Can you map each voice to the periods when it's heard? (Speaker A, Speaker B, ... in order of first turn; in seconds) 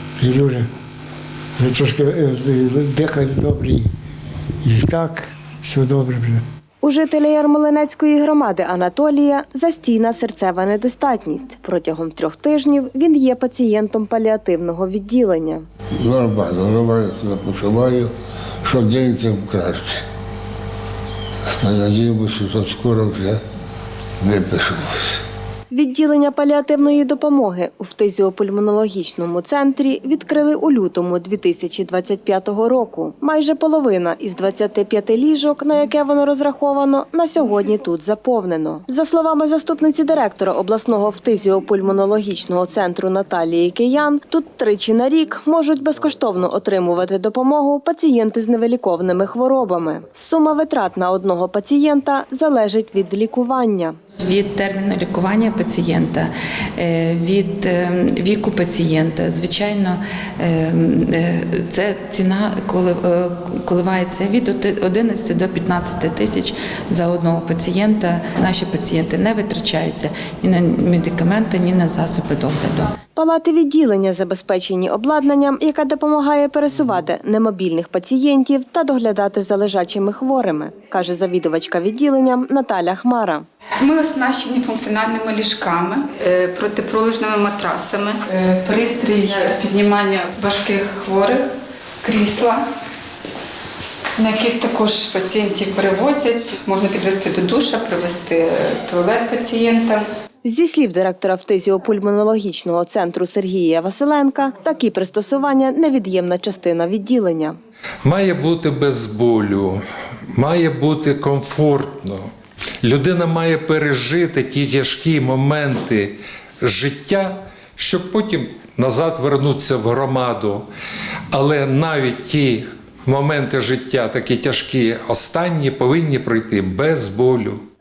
Speaker A: 0.2-0.7, 1.6-3.9, 4.6-6.4
Speaker B: 6.8-15.7, 25.7-54.0, 73.2-83.5, 100.5-107.6
Speaker C: 16.0-18.1, 18.6-20.0, 21.5-23.4, 24.2-25.2
Speaker D: 54.2-73.0
Speaker E: 83.8-92.7, 94.2-100.1
Speaker F: 108.0-109.8, 110.3-112.3, 112.8-120.7, 121.3-127.6